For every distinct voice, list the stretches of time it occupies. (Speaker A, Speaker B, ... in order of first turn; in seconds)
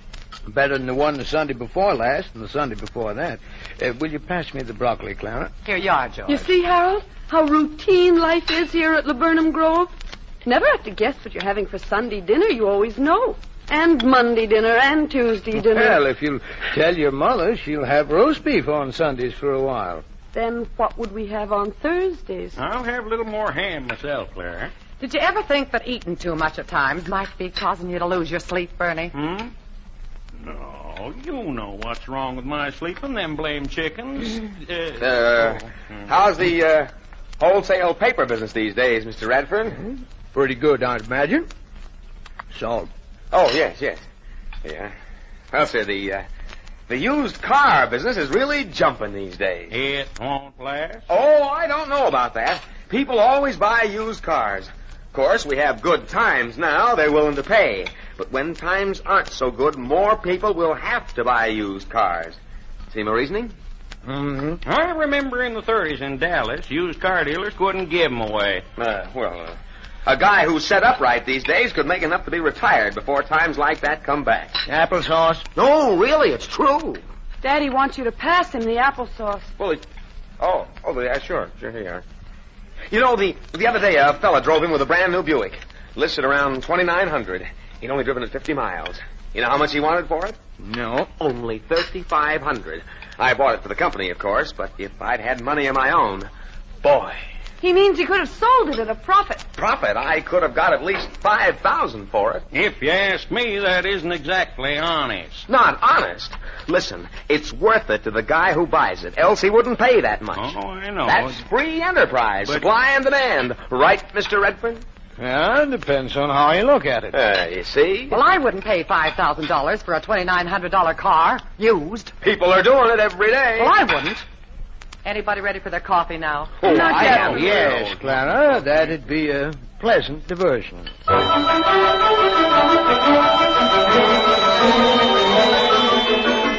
Speaker A: 0.5-5.5, 15.5-20.0, 40.3-41.5, 42.5-42.9, 64.0-64.6, 74.6-75.5, 90.6-91.1, 115.2-117.2, 127.0-130.9
Speaker B: 5.6-6.5, 25.0-29.1, 118.1-122.1, 123.6-124.2, 125.0-127.0
Speaker C: 6.3-16.0, 20.3-22.6, 77.4-79.5, 97.6-99.4, 126.6-127.4
Speaker D: 22.6-24.7, 29.1-29.5, 30.4-35.6, 49.7-51.0, 64.6-68.7, 102.5-105.4, 110.3-111.4, 127.2-128.9
Speaker E: 35.0-39.8, 43.3-44.0, 44.6-44.9, 45.5-46.2, 46.9-49.7, 51.1-63.5, 68.8-74.6, 75.5-77.0, 80.4-82.0, 82.9-90.4, 91.2-96.3, 96.8-97.2, 99.5-102.4, 105.5-110.5, 111.0-114.8, 117.1-118.1, 121.8-123.7, 126.6-127.3